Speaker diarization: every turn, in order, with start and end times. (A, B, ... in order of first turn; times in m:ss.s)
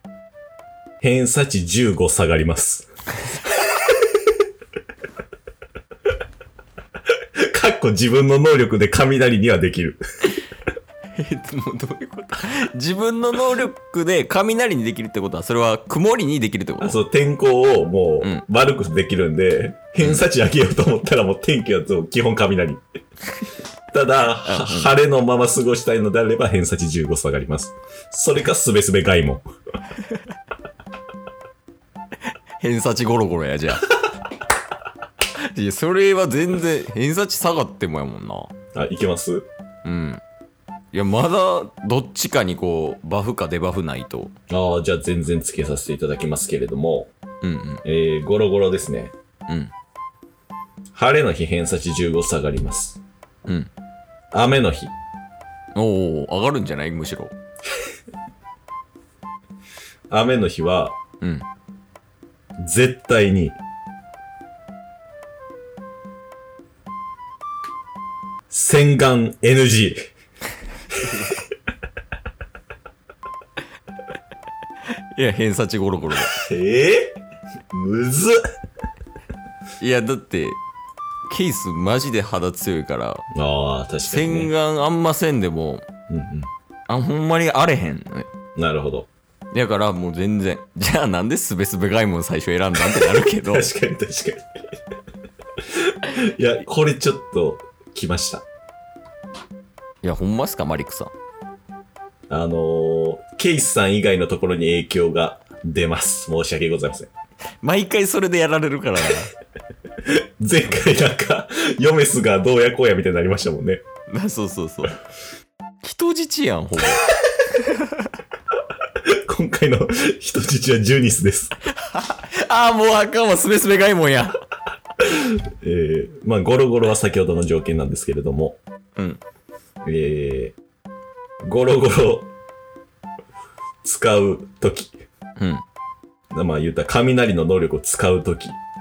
0:01.0-0:02.9 A
0:07.4-0:10.3 A
0:11.2-0:17.0 B
0:16.8-0:22.8 A
0:23.9-0:29.4 A
0:24.4-0:24.9 B
0:32.6-0:33.9 B
0:35.4-0:38.5 B
0:38.7-0:39.5 A
0:39.8-0:40.2 B
0:40.9-0:44.3 B
0:44.5-0:47.1 A
0:47.4-0:47.8 B
0:47.8-0:49.1 A
0:50.9-0:53.0 A
0:53.4-0:53.7 B
0:54.3-0:54.9 A
0:55.7-0:57.3 B
1:00.1-1:01.0 A
1:02.6-1:03.6 A
1:08.5-1:10.1 A
1:15.1-1:16.4 B
1:16.3-1:17.2 A
1:17.7-1:18.4 A
1:19.8-1:20.6 B
1:21.3-1:23.2 B
1:23.3-1:24.5 A
1:24.0-1:25.8 B
1:26.1-1:26.5 A
1:26.9-1:28.3 B
1:28.6-1:29.1 A
1:29.5-1:33.7 B
1:33.0-1:34.5 A
1:35.8-1:38.4 A
1:40.0-1:41.1 B
1:42.3-1:47.1 A
1:47.6-1:49.3 B
1:50.0-1:53.8 A
1:54.1-1:55.0 B
1:55.8-1:57.1 B
1:57.6-1:58.0 B
1:59.0-2:01.5 A
2:01.8-2:04.4 B
2:05.0-2:08.6 A
2:09.8-2:10.6 A
2:11.4-2:12.3 A
2:13.8-2:15.0 A
2:15.4-2:15.6 B
2:16.3-2:18.6 A